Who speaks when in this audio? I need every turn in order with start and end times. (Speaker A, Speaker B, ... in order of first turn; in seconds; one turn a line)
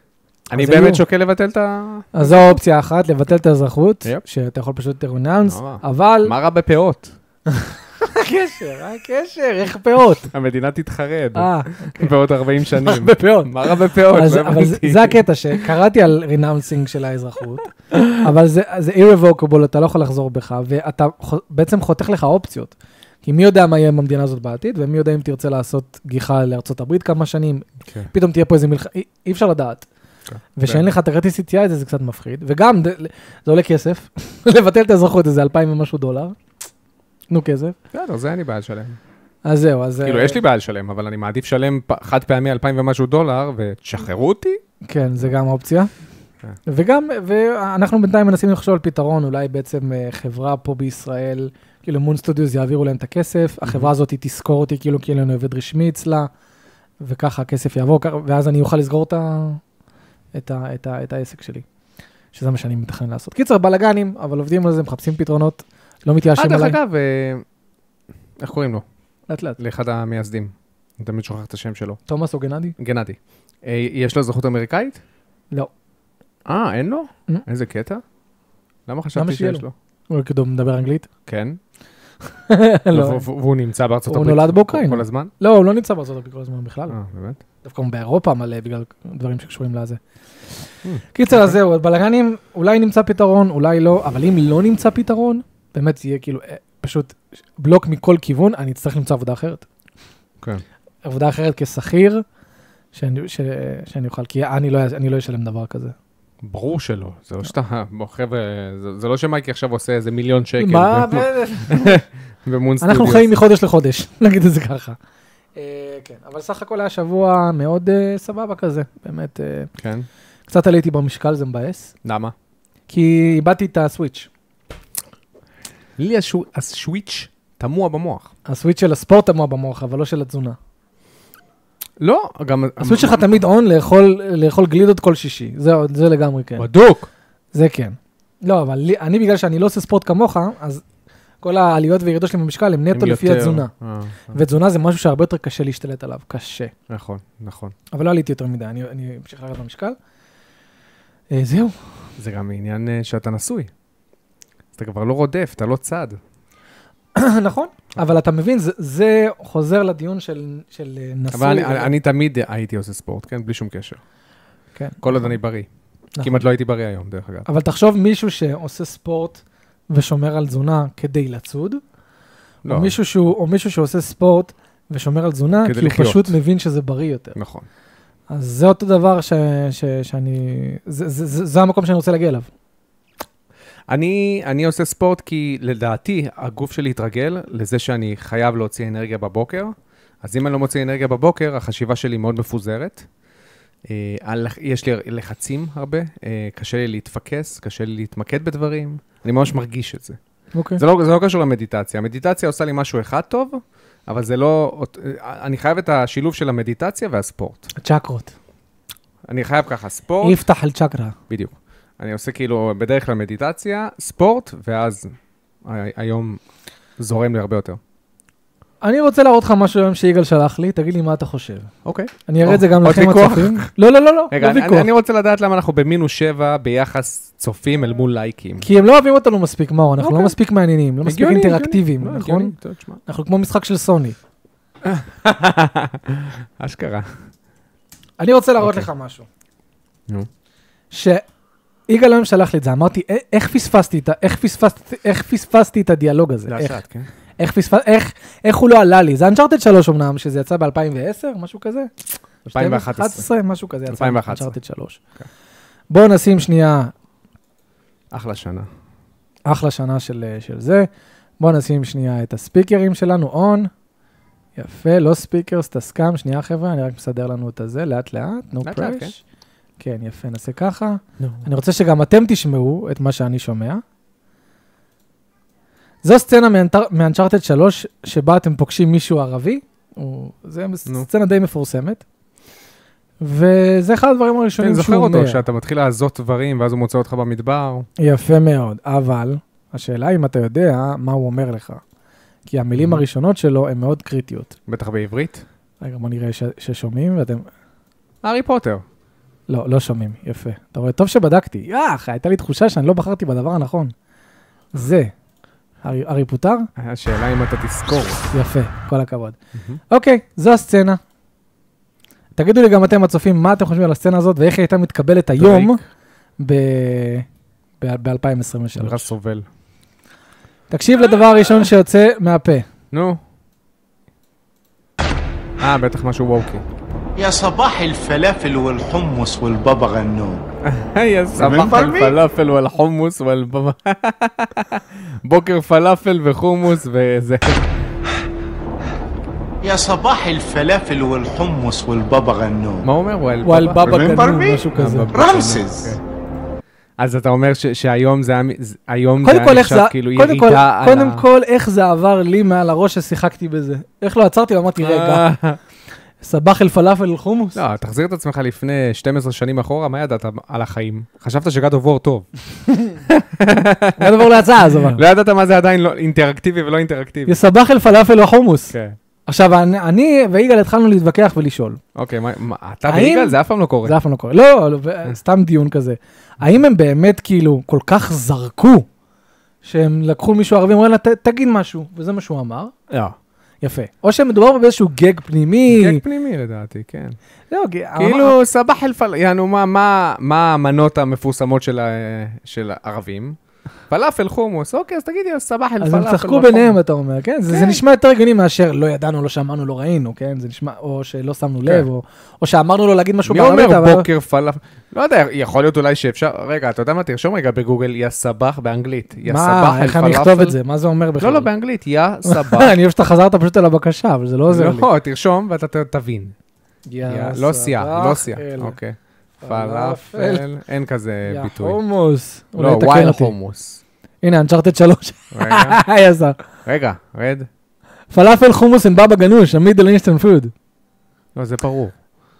Speaker A: 0.5-2.6
Speaker B: 0.5-1.0
Speaker B: 2.1-6.3
Speaker A: 5.4-7.1
Speaker B: 7.5-10.3
Speaker A: 10.3-15.7
Speaker B: 11.3-12.1
Speaker B: 12.7-22.7
Speaker A: 17.9-18.2
Speaker B: 23.2-29.9
Speaker A: 30.3-30.9
Speaker B: 30.6-36.4
Speaker B: 37.3-37.8
Speaker A: 37.9-39.0
Speaker B: 39.4-40.4
Speaker A: 40.0-44.6
Speaker B: 44.9-45.9
Speaker B: 46.6-56.3
Speaker A: 53.6-53.9
Speaker B: 57.0-59.6
Speaker B: 60.3-61.6
Speaker B: 62.3-66.8
Speaker A: 66.3-67.4
Speaker A: 68.4-68.8
Speaker B: 69.3-69.6
Speaker A: 69.6-72.0
Speaker B: 72.1-72.8
Speaker A: 72.8-75.0
Speaker A: 76.5-78.0
Speaker A: 78.9-79.7
Speaker B: 79.1-81.1
Speaker A: 81.2-81.6
Speaker B: 82.5-83.2
Speaker A: 82.9-85.3
Speaker B: 84.1-87.0
Speaker A: 86.9-87.4
Speaker B: 87.6-90.0
Speaker A: 90.8-91.6
Speaker B: 91.1-99.6
Speaker B: 101.0-102.2
Speaker B: 102.9-105.9
Speaker A: 106.4-113.3
Speaker B: 110.6-112.0
Speaker B: 112.8-115.0
Speaker B: 115.5-119.7
Speaker A: 119.8-120.1
Speaker B: 120.5-121.9
Speaker A: 122.0-122.3
Speaker B: 122.9-124.3
Speaker A: 126.0-128.3
Speaker B: 128.4-130.6
Speaker A: 132.0-133.4
Speaker B: 132.8-136.7
Speaker A: 136.6-137.1
Speaker B: 137.5-140.8
Speaker B: 141.4-143.7
Speaker A: 142.9-144.4
Speaker B: 144.3-146.7
Speaker A: 146.9-147.7
Speaker B: 147.9-149.9
Speaker B: 151.3-151.8
Speaker A: 152.2-153.7
Speaker A: 154.8-156.2
Speaker B: 157.2-161.9
Speaker A: 161.3-164.0
Speaker B: 164.8-165.3
Speaker A: 165.0-165.7
Speaker B: 166.1-166.4
Speaker A: 166.2-167.5
Speaker B: 167.4-171.8
Speaker A: 172.6-172.9
Speaker B: 172.7-177.3
Speaker A: 175.6-176.3
Speaker A: 177.3-177.7
Speaker B: 178.3-182.5
Speaker A: 183.9-193.1
Speaker A: 193.9-200.2
Speaker B: 200.5-200.8
Speaker A: 200.8-207.7
Speaker B: 207.8-208.3
Speaker A: 209.2-210.4
Speaker B: 210.2-211.1
Speaker A: 211.3-216.4
Speaker A: 217.0-217.8
Speaker B: 218.8-221.7
Speaker A: 221.8-223.7
Speaker B: 222.3-224.9
Speaker A: 224.3-228.7
Speaker B: 228.6-232.5
Speaker A: 230.0-230.3
Speaker A: 231.0-233.0
Speaker B: 233.1-234.2
Speaker A: 234.8-237.1
Speaker B: 238.2-239.2
Speaker A: 238.6-238.9
Speaker B: 240.9-241.2
Speaker B: 241.9-246.8
Speaker A: 246.5-247.1
Speaker B: 247.4-251.9
Speaker B: 252.4-255.0
Speaker A: 252.5-253.2
Speaker A: 253.9-254.5
Speaker B: 255.9-256.9
Speaker A: 258.1-258.7
Speaker B: 259.5-260.9
Speaker B: 261.4-263.7
Speaker B: 264.6-269.2
Speaker A: 268.6-269.2
Speaker B: 269.8-273.8
Speaker A: 271.2-271.5
Speaker B: 276.0-282.0
Speaker B: 283.2-285.4
Speaker A: 284.6-287.9
Speaker B: 288.0-291.8
Speaker B: 292.5-294.5
Speaker A: 294.7-295.4
Speaker B: 295.8-297.4
Speaker A: 298.2-298.8
Speaker B: 299.5-303.9
Speaker B: 304.7-305.1
Speaker B: 305.8-306.7
Speaker A: 306.8-308.3
Speaker B: 308.3-309.4
Speaker B: 309.9-311.0
Speaker B: 312.4-315.8
Speaker A: 315.4-315.8
Speaker B: 316.4-317.2
Speaker B: 317.8-319.1
Speaker A: 318.8-319.5
Speaker B: 320.7-322.7
Speaker A: 322.9-323.2
Speaker A: 325.6-326.6
Speaker C: 327.1-330.4
Speaker A: 330.6-337.8
Speaker C: 331.4-332.2
Speaker C: 339.6-342.9
Speaker A: 342.8-346.0
Speaker B: 343.4-345.2
Speaker C: 343.8-346.0
Speaker A: 347.0-351.2
Speaker B: 349.2-355.3
Speaker A: 354.8-355.6
Speaker B: 356.2-357.6
Speaker A: 357.5-362.3
Speaker A: 362.9-364.3
Speaker B: 364.0-365.0
Speaker A: 364.9-367.4
Speaker B: 367.3-368.7
Speaker A: 368.7-369.0
Speaker B: 369.3-371.8
Speaker A: 371.9-373.9
Speaker B: 372.9-378.9
Speaker B: 379.6-382.7
Speaker A: 382.9-383.1
Speaker B: 383.6-386.0
Speaker A: 385.7-387.2
Speaker B: 387.5-388.4
Speaker A: 388.0-393.4
Speaker A: 393.9-396.8
Speaker B: 395.8-404.1
Speaker A: 397.5-397.8
Speaker A: 403.2-410.6
Speaker B: 409.2-411.5
Speaker A: 411.2-412.7
Speaker B: 412.2-414.9
Speaker A: 414.5-416.3
Speaker B: 416.9-418.8
Speaker A: 417.1-421.8
Speaker B: 419.4-420.4
Speaker B: 421.2-423.3
Speaker A: 422.6-423.8
Speaker B: 424.2-426.4
Speaker A: 425.3-425.8
Speaker A: 426.6-427.5
Speaker B: 428.1-430.5
Speaker A: 431.3-431.9